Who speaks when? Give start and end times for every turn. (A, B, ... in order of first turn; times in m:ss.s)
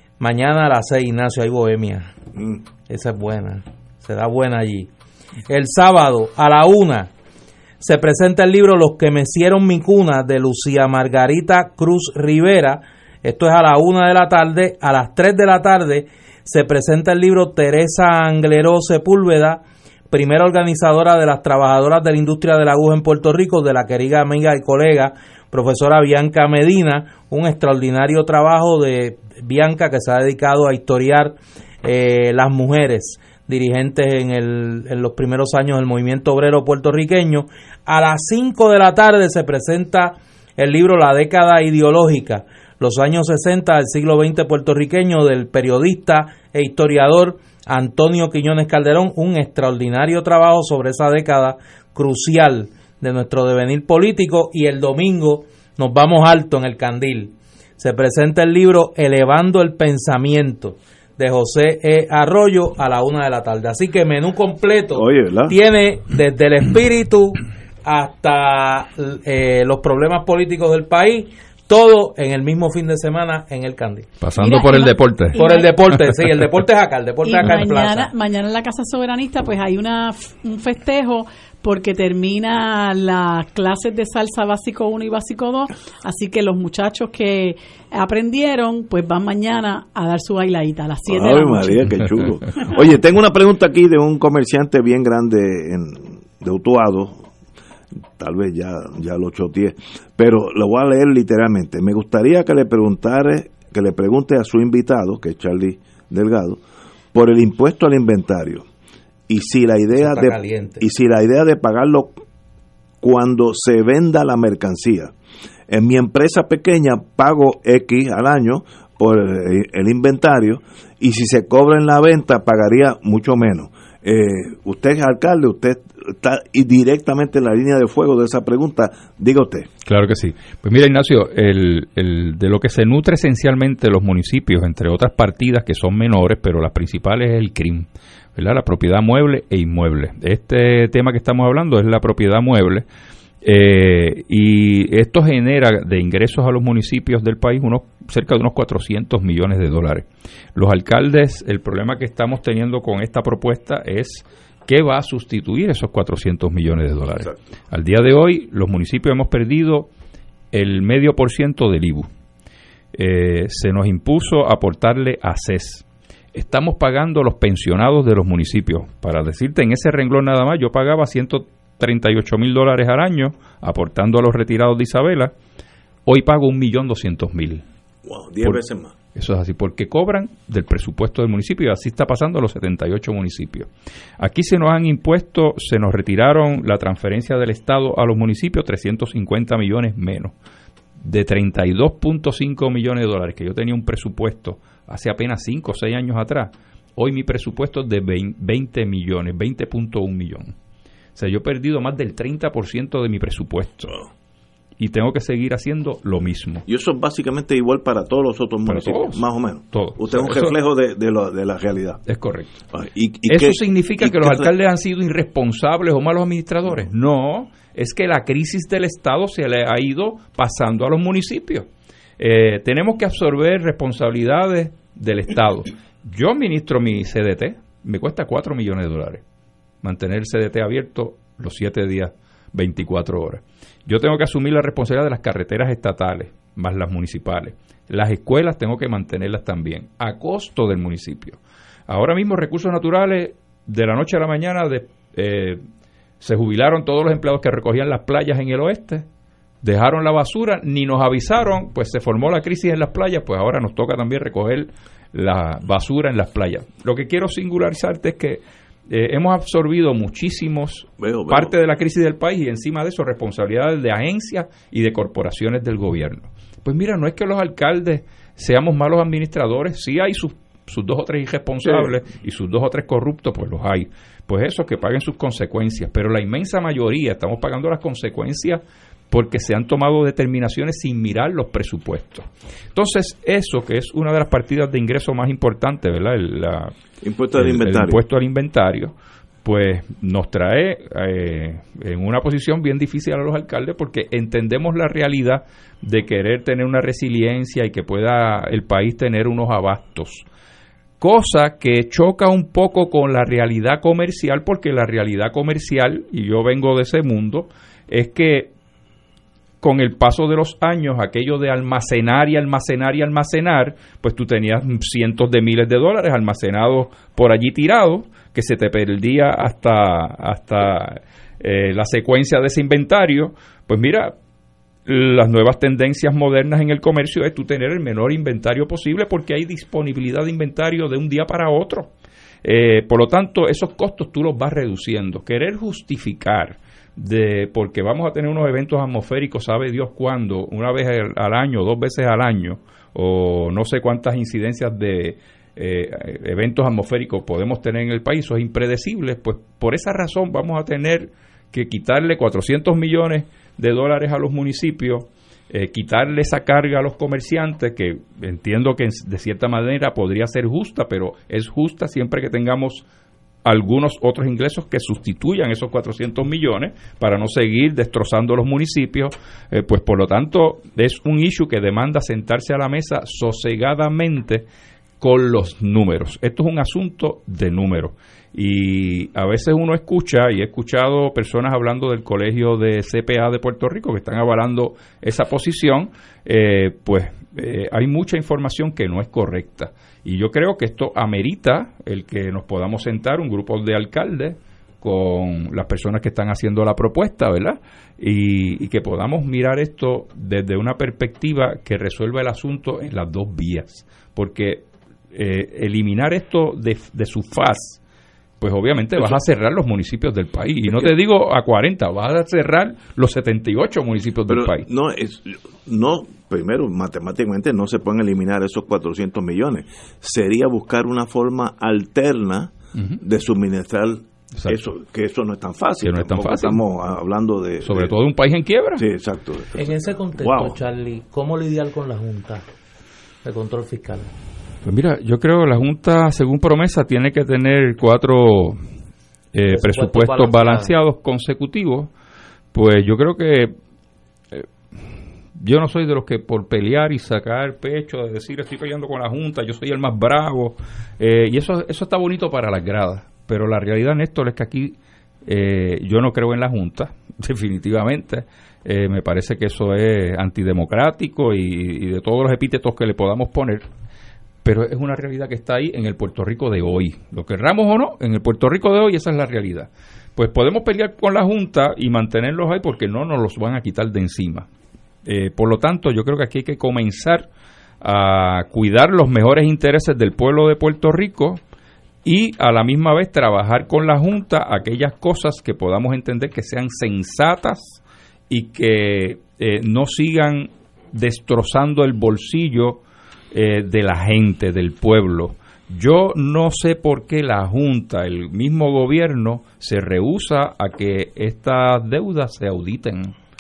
0:00.2-0:02.1 A
0:02.4-0:02.6 B
0:02.9-0:04.9 A
0:05.5-0:07.1 A
0:07.8-1:14.1 A
1:04.9-1:05.6 B
1:14.2-1:16.2 C
1:14.4-1:15.8 D
1:15.4-1:18.1 A
1:17.2-1:31.9 D
1:31.1-1:37.3 B
1:38.2-1:46.6 B
1:47.1-1:48.7 B
1:49.3-1:52.2 B
1:50.0-1:50.8 A
1:53.0-1:55.1 B
1:55.7-2:09.7 B
2:09.8-2:22.9 C
2:23.4-2:39.9 C
2:37.2-2:37.5 B
2:40.5-2:42.1 C
2:43.0-2:55.3 C
2:56.1-2:57.6 C
2:58.0-2:59.0 B
2:59.2-3:03.7 C
3:04.2-3:10.3 C
3:11.0-3:20.5 C
3:21.2-3:23.9 C
3:24.8-3:26.6 C
3:26.7-3:32.0 B
3:28.7-3:30.6 C
3:32.1-3:32.5 C
3:32.7-3:34.5 B
3:33.3-3:41.7 C
3:42.2-3:49.2 C
3:49.8-4:05.6 C
4:06.2-4:09.1 C
4:09.6-4:46.8 C
4:21.0-4:21.5 B
4:31.6-4:32.0 B
4:47.0-4:48.0 B
4:47.3-5:00.3 C
5:01.0-5:08.5 C
5:09.6-5:24.2 C
5:24.9-5:31.9 C
5:32.4-6:02.9 C
6:03.4-6:14.5 C
6:15.0-6:47.8 C
6:48.4-6:54.7 C
6:50.7-6:50.9 B
6:54.3-7:07.9 B
7:05.8-7:06.6 C
7:07.6-7:08.8 C
7:08.8-7:10.6 B
7:09.6-7:12.4 A
7:13.2-7:14.1 A
7:14.6-7:18.6 C
7:19.3-7:21.9 C
7:19.5-7:20.7 A
7:22.5-7:23.6 C
7:24.3-7:43.7 C
7:44.4-7:54.5 C
7:55.0-7:57.3 C
7:57.8-8:01.4 C
8:02.0-8:23.1 C